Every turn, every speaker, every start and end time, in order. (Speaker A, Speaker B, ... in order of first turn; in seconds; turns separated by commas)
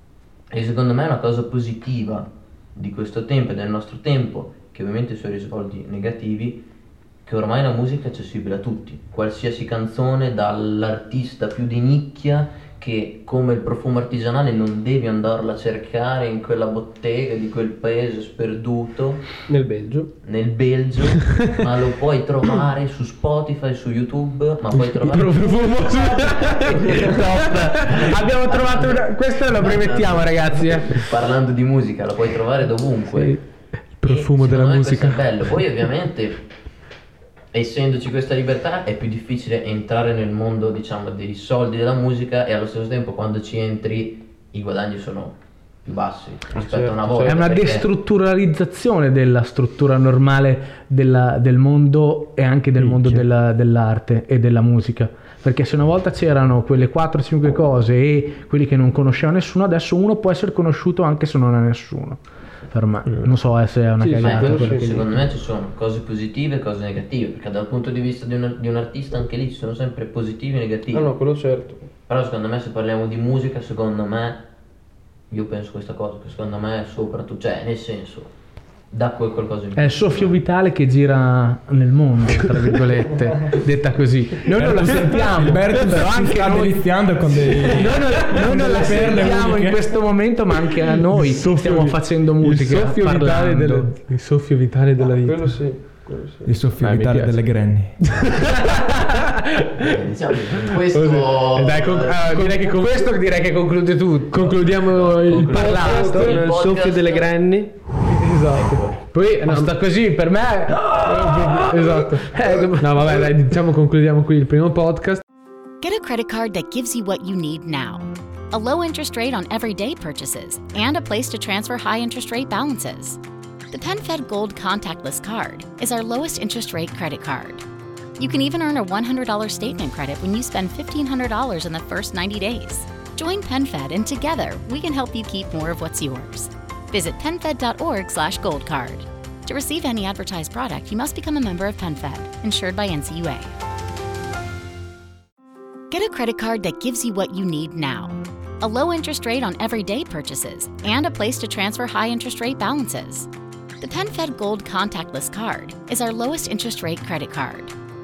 Speaker A: 0.5-6.7, Speaker A: 7.2-19.4, Speaker B: 19.5-20.1, Speaker A: 20.2-33.4, Speaker C: 25.0-28.1, Speaker D: 27.0-31.1, Speaker C: 34.0-35.2, Speaker A: 34.0-36.4, Speaker A: 37.5-47.9, Speaker B: 46.5-47.4, Speaker D: 47.2-62.2, Speaker C: 52.8-53.2, Speaker D: 62.7-65.1, Speaker B: 64.0-64.9, Speaker A: 64.2-71.1, Speaker B: 70.9-71.8, Speaker A: 72.1-74.5, Speaker A: 75.3-78.3, Speaker A: 78.9-80.4, Speaker D: 79.8-93.9, Speaker E: 84.5-90.0, Speaker C: 88.2-88.6, Speaker B: 88.8-89.3, Speaker C: 91.1-95.6, Speaker B: 95.1-96.5, Speaker E: 96.5-98.1, Speaker C: 96.8-97.4, Speaker C: 98.1-103.2, Speaker D: 98.4-98.9, Speaker A: 99.8-102.3, Speaker D: 102.3-104.6, Speaker C: 104.3-106.5, Speaker A: 104.4-107.3, Speaker D: 105.5-106.2, Speaker B: 105.5-107.7, Speaker C: 108.0-109.7, Speaker A: 108.4-109.0, Speaker D: 109.5-113.0, Speaker C: 111.0-115.2, Speaker F: 115.8-123.2, Speaker F: 123.7-127.6, Speaker F: 128.2-143.5, Speaker F: 145.9-153.3, Speaker F: 153.8-157.7